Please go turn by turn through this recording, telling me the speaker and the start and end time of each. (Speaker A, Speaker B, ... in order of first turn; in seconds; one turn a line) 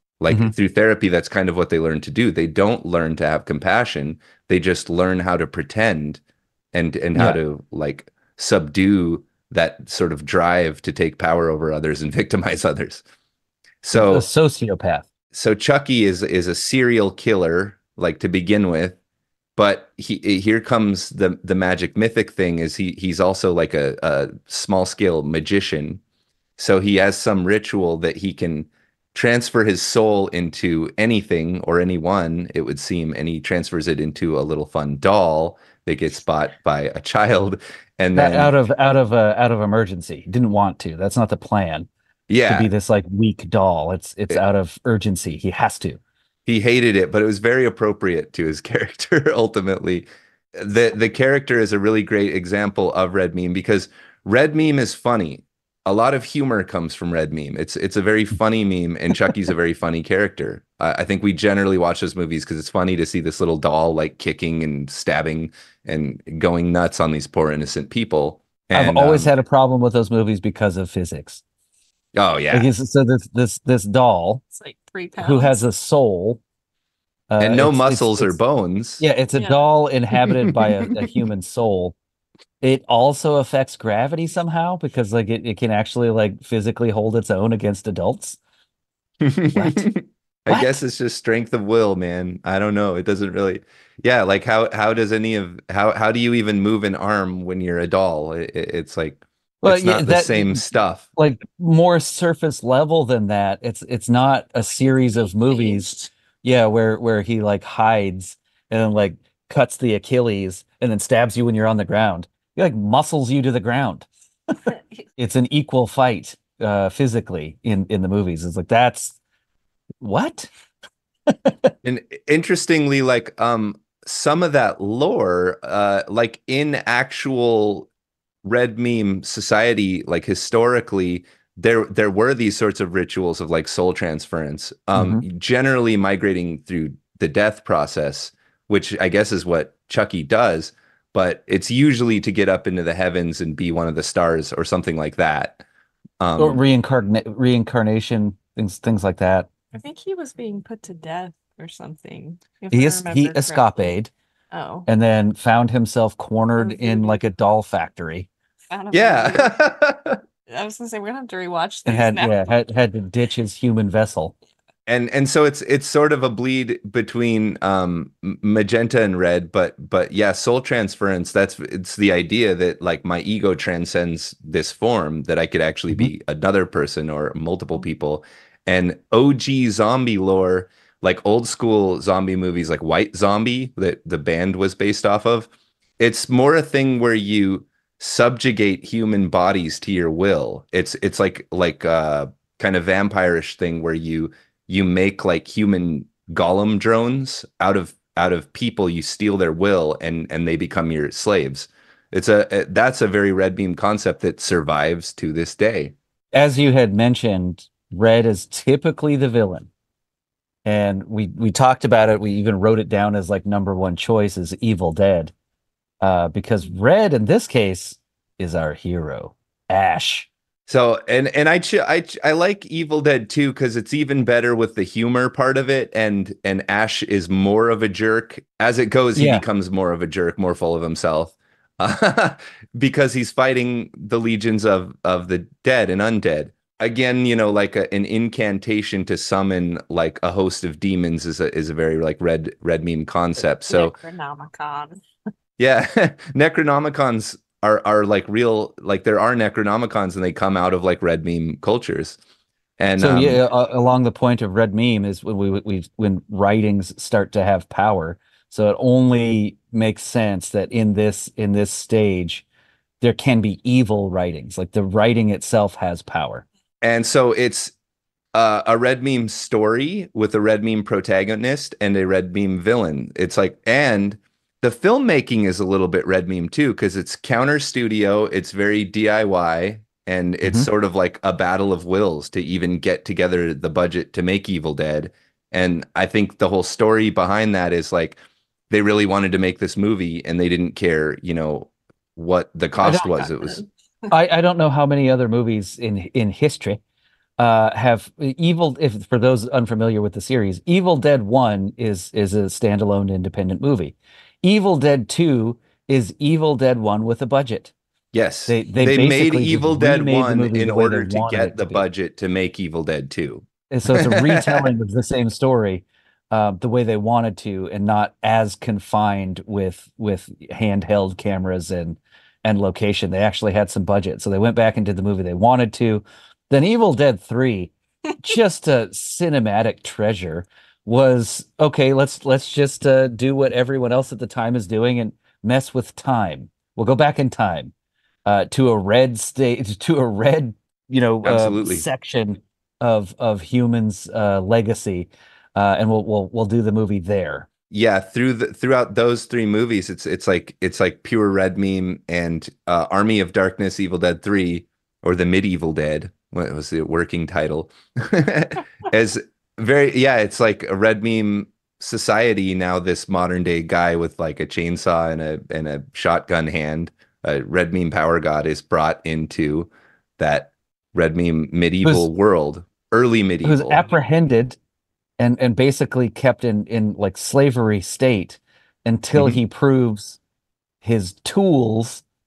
Speaker A: 0.2-6.2
Speaker A: 6.7-13.0
Speaker A: 13.8-14.3
Speaker B: 13.9-15.1
Speaker A: 15.3-19.0
Speaker A: 19.6-26.0
Speaker A: 26.6-38.5
Speaker B: 38.1-41.9
Speaker A: 42.3-42.7
Speaker B: 42.4-46.0
Speaker A: 46.5-69.3
Speaker B: 68.7-71.4
Speaker A: 72.1-72.7
Speaker B: 72.5-74.4
Speaker C: 74.5-75.6
Speaker B: 75.2-76.4
Speaker B: 77.3-78.3
Speaker A: 77.4-79.0
Speaker B: 79.0-81.9
Speaker C: 79.3-79.6
Speaker A: 80.2-80.7
Speaker B: 82.6-88.4
Speaker A: 89.2-101.0
Speaker B: 89.5-89.9
Speaker B: 90.5-90.7
Speaker B: 99.6-100.6
Speaker B: 101.2-119.2
Speaker C: 105.3-106.0
Speaker C: 114.7-115.0
Speaker B: 120.0-120.5
Speaker B: 121.3-121.7
Speaker A: 121.8-127.9
Speaker A: 128.4-145.6
Speaker B: 134.9-135.2
Speaker A: 146.2-146.6
Speaker B: 146.4-149.5
Speaker C: 149.7-153.9
Speaker B: 152.7-154.1
Speaker C: 154.5-154.9
Speaker B: 154.8-158.3
Speaker C: 156.6-157.2
Speaker C: 158.7-159.6
Speaker A: 158.9-160.2
Speaker C: 160.5-162.6
Speaker B: 161.8-164.3
Speaker A: 164.9-185.5
Speaker A: 186.0-205.9
Speaker B: 206.3-209.7
Speaker B: 210.6-215.3
Speaker B: 216.0-220.3
Speaker A: 220.7-243.9
Speaker B: 229.2-229.4
Speaker C: 243.7-245.0
Speaker A: 245.6-252.2
Speaker A: 252.8-253.4
Speaker B: 253.0-262.4
Speaker B: 263.0-266.4
Speaker A: 266.8-267.7
Speaker A: 268.3-288.2
Speaker B: 280.4-280.7
Speaker A: 288.7-293.6
Speaker C: 292.8-294.1
Speaker B: 294.1-296.8
Speaker B: 297.4-307.7
Speaker A: 308.1-314.7
Speaker B: 308.5-311.8
Speaker B: 313.7-337.7
Speaker B: 338.2-347.5
Speaker A: 341.2-341.9
Speaker A: 347.7-373.9
Speaker B: 373.4-374.6
Speaker B: 375.2-380.2
Speaker B: 380.8-382.0